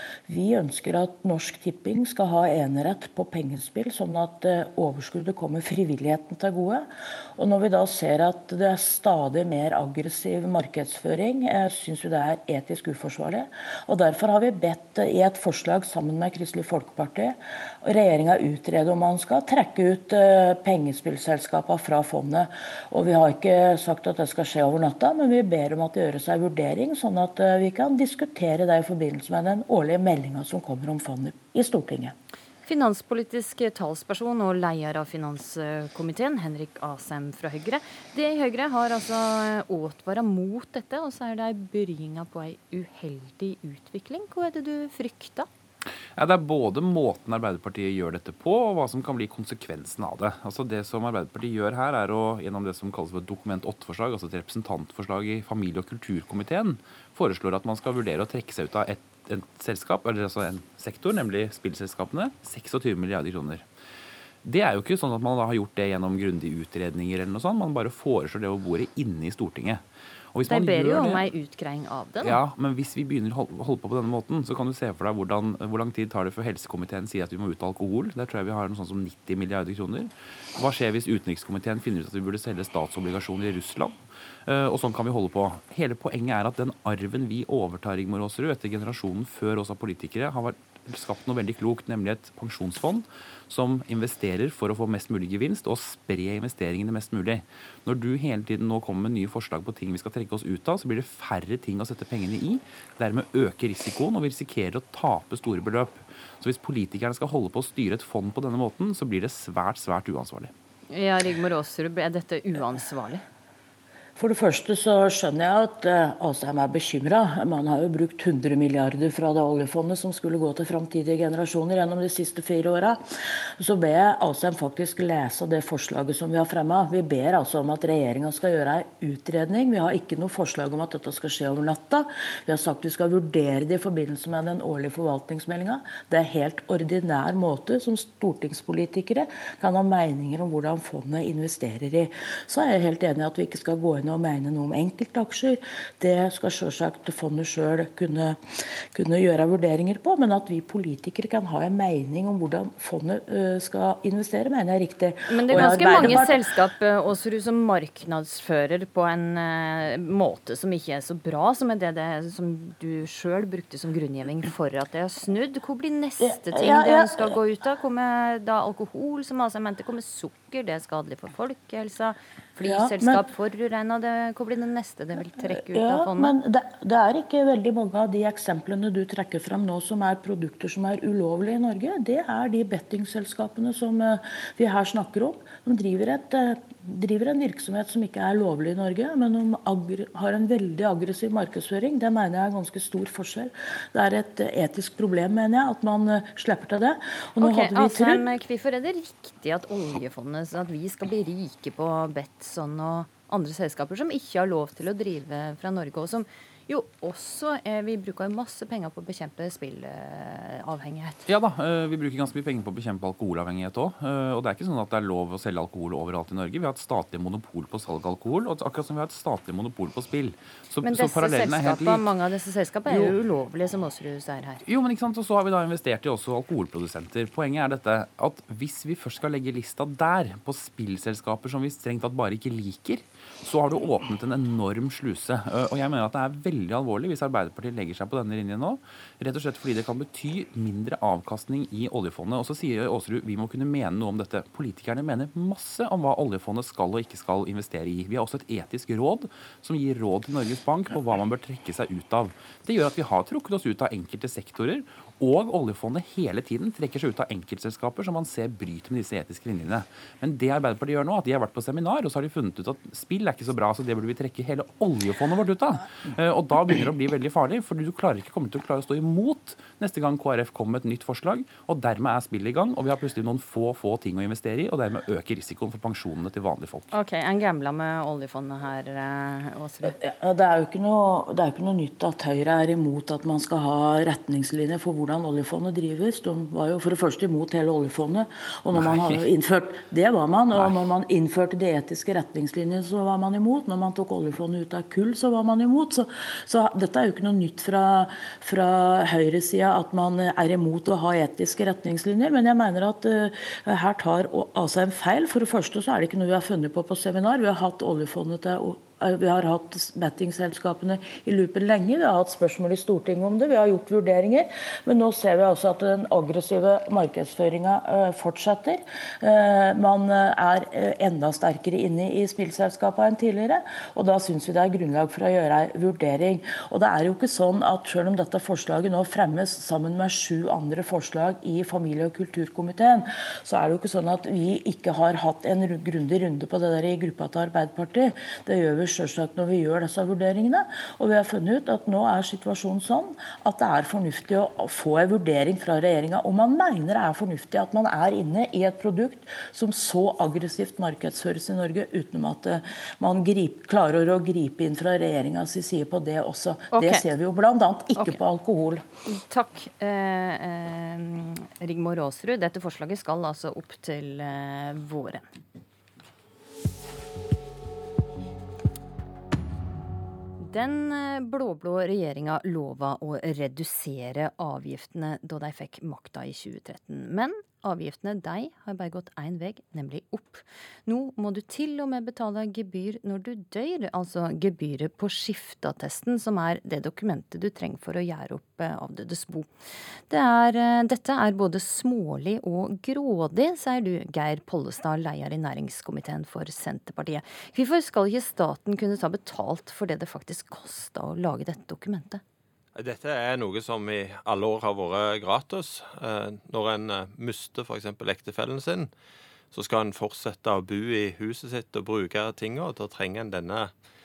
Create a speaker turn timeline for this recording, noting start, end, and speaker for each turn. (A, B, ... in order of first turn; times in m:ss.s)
0:00.3-0:32.1 A
0:32.7-0:45.5 B
0:46.2-1:03.7 C
1:04.4-1:09.8 C
1:10.3-1:11.3 C
1:10.5-1:12.4 B
1:12.2-1:50.5 C
1:50.9-1:53.2 B
1:54.2-2:03.0 A
2:03.6-2:28.4 A
2:28.9-2:36.5 A
2:35.3-2:56.4 B
2:46.2-2:47.4 A
2:52.6-2:53.2 A
2:55.6-3:18.2 A
3:17.4-3:31.2 B
3:31.3-3:42.0 C
3:40.8-3:44.6 B
3:42.9-3:43.2 C
3:44.6-4:36.9 C
4:36.9-4:40.0 B
4:39.8-5:58.8 A
4:48.8-4:49.2 C
5:56.7-5:57.1 B
5:58.0-5:58.2 B
5:59.1-6:05.3 B
6:10.4-6:29.5 B
6:30.1-6:42.2 B
6:42.8-6:48.9 D
6:49.5-6:53.7 D